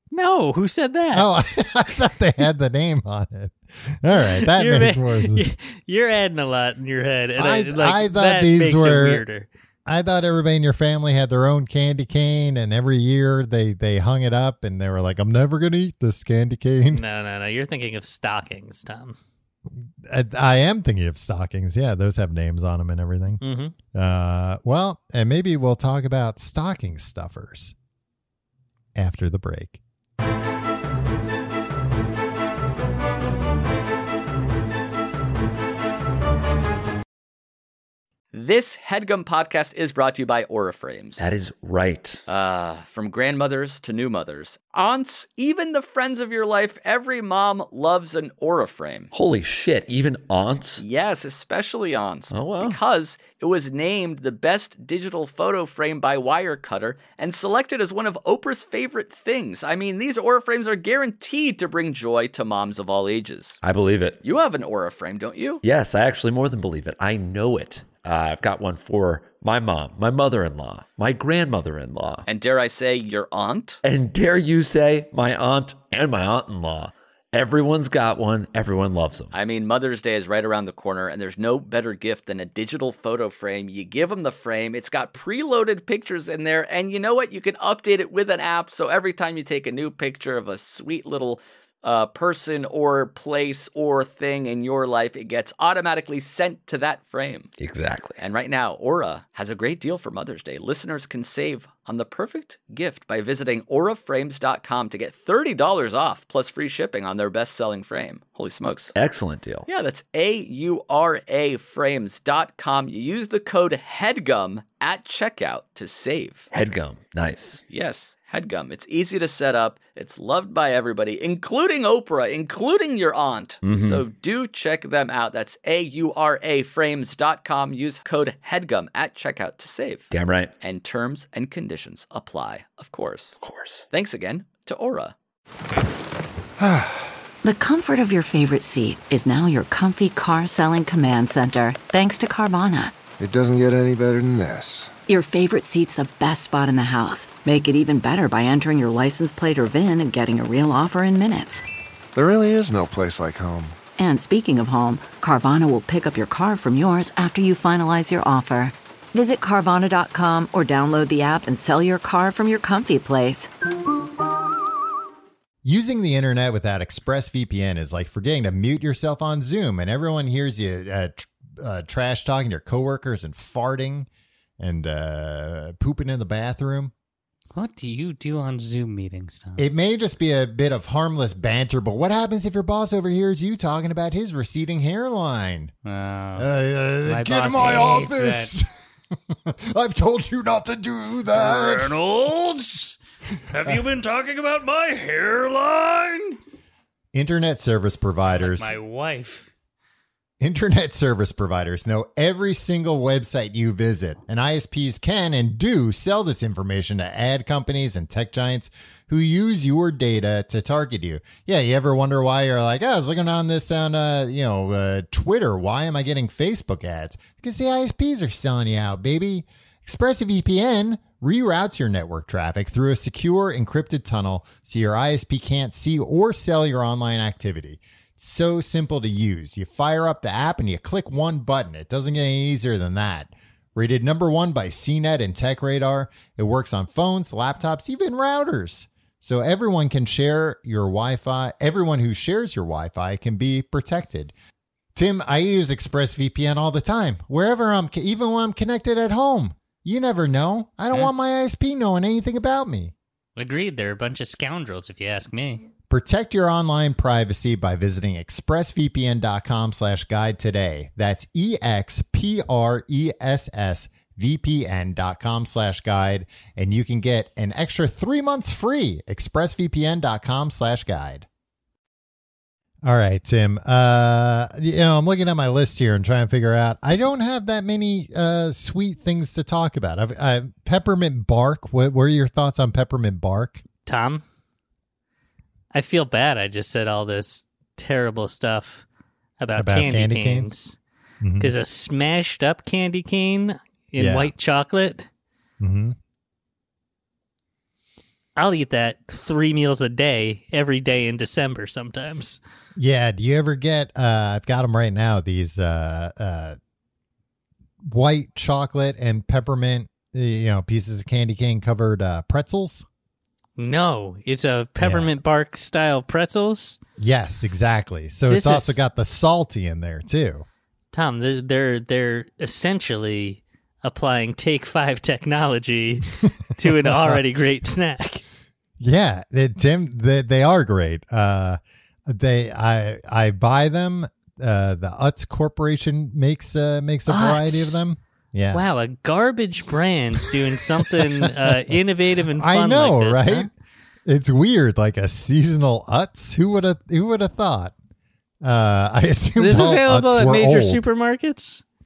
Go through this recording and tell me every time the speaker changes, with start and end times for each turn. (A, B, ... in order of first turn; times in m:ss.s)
0:00.1-0:01.3 A
0:01.1-0:05.4 B
0:04.2-0:09.5 A
0:07.4-0:09.2 B
0:09.8-0:17.0 B
0:16.9-0:19.2 A
0:20.0-0:23.4 B
0:23.4-0:23.7 A
0:23.9-0:27.7 B
0:28.9-0:29.8 B
0:38.3-0:41.2 C
0:41.2-0:42.2 D
0:42.3-0:49.1 C
0:49.1-0:50.8 D
0:50.8-1:03.6 C
0:52.3-0:52.8 D
1:03.6-1:04.2 D
1:04.2-1:05.6 C
1:05.6-1:12.3 D
1:12.2-1:13.8 C
1:13.8-1:19.3 D
1:19.3-1:37.5 C
1:37.6-1:38.2 D
1:38.2-1:48.9 C
1:48.9-1:49.7 D
1:49.7-1:56.5 C
1:56.5-1:57.6 D
1:57.7-2:10.1 C
2:03.6-2:04.0 D
2:10.1-2:10.5 D
2:10.6-2:13.4 C
2:13.4-2:13.8 D
2:13.9-2:15.1 C
2:16.6-2:17.1 E
2:17.4-2:22.9 F
2:23.2-2:24.9 E
2:25.1-2:31.6 F
2:32.1-2:33.8 E
2:34.0-2:43.5 F
2:45.6-2:54.1 B
2:54.6-2:56.9 B
2:57.5-2:59.6 A
2:59.6-3:05.7 B
3:05.8-3:06.5 A
3:06.4-3:08.7 B
3:07.0-3:08.5 A
3:09.3-3:11.9 B
3:11.3-3:12.9 A
3:13.5-3:16.4 A
3:17.1-3:18.8 B
3:18.3-3:19.5 A
3:20.4-4:04.3 B
4:04.9-4:12.9 B
4:13.4-4:15.7 A
4:15.9-4:31.2 B
4:32.8-4:43.6 B
4:43.8-4:44.2 A
4:45.7-4:48.8 A
4:49.4-4:50.8 A
4:49.6-4:50.5 B
4:51.2-4:51.5 B
4:51.4-4:55.1 A
4:53.9-4:54.3 B
4:55.6-4:56.0 B
4:58.4-5:02.4 A
5:02.8-5:06.6 B
5:07.8-5:12.8 B
5:13.6-5:16.8 A
5:14.8-5:15.1 B
5:17.0-5:20.4 B
5:18.3-5:18.8 A
5:20.9-5:28.2 A
5:26.6-5:27.2 B
5:28.8-5:38.6 B
5:37.1-5:37.8 A
5:38.5-5:43.5 A
5:40.2-5:41.8 B
5:42.3-5:43.5 B
5:44.1-5:47.8 B
5:48.4-5:50.8 B
5:49.4-5:51.6 A